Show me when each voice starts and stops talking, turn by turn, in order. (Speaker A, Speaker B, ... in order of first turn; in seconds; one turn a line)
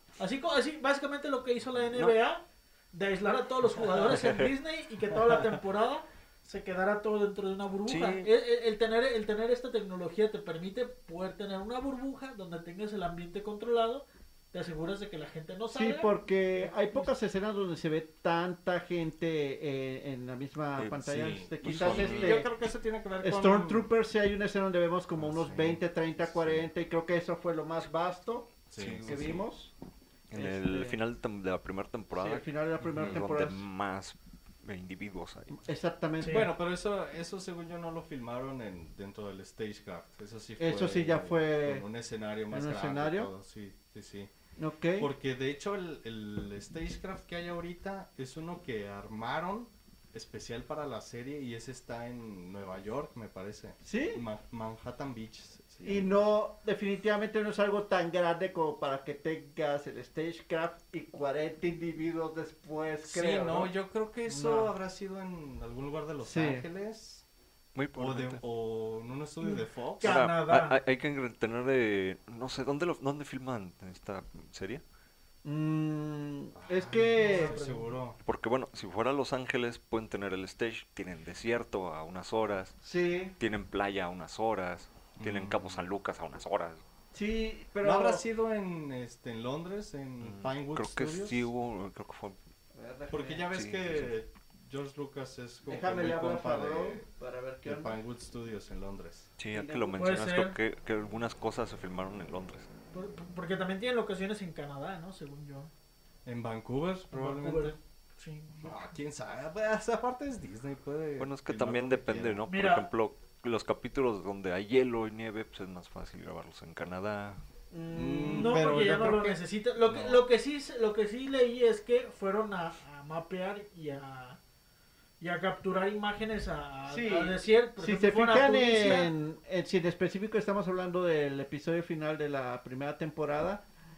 Speaker A: 0.2-17.1
Speaker B: 3.8-4.2
Speaker C: 4.1-4.5
Speaker C: 7.9-8.3
Speaker D: 15.7-22.5
Speaker C: 20.8-22.4
Speaker B: 21.0-23.9
Speaker D: 23.2-29.7
Speaker B: 25.2-26.6
Speaker B: 28.7-29.4
Speaker C: 28.8-29.4
Speaker C: 30.3-35.6
Speaker D: 30.3-31.0
Speaker D: 32.1-33.6
Speaker D: 35.5-36.5
Speaker A: 36.2-36.5
Speaker B: 36.2-44.3
Speaker D: 40.6-41.8
Speaker D: 42.5-43.3
Speaker D: 44.6-45.1
Speaker B: 45.0-56.1
Speaker D: 53.8-54.2
Speaker D: 55.8-63.7
Speaker B: 63.0-67.2
Speaker D: 64.3-64.7
Speaker D: 66.2-66.7
Speaker C: 67.7-68.4
Speaker B: 67.9-70.2
Speaker A: 69.4-70.8
Speaker C: 70.0-74.8
Speaker D: 75.4-77.6
Speaker B: 76.5-78.2
Speaker A: 77.2-77.9
Speaker C: 78.2-82.8
Speaker D: 82.8-83.3
Speaker C: 83.4-86.8
Speaker B: 85.2-85.8
Speaker D: 87.1-88.2
Speaker B: 87.8-91.4
Speaker C: 90.2-92.4
Speaker D: 92.7-93.5
Speaker B: 93.1-97.0
Speaker C: 93.5-94.1
Speaker D: 95.7-98.0
Speaker B: 97.6-99.3
Speaker C: 99.4-102.7
Speaker D: 99.5-100.0
Speaker A: 99.9-100.5
Speaker A: 102.9-105.7
Speaker B: 106.2-107.8
Speaker A: 107.1-108.8
Speaker B: 108.6-112.4
Speaker C: 111.2-117.4
Speaker A: 112.5-112.9
Speaker D: 117.7-119.4
Speaker B: 117.9-119.2
Speaker A: 118.3-124.4
Speaker B: 119.8-120.2
Speaker A: 125.2-129.1
Speaker D: 126.9-133.6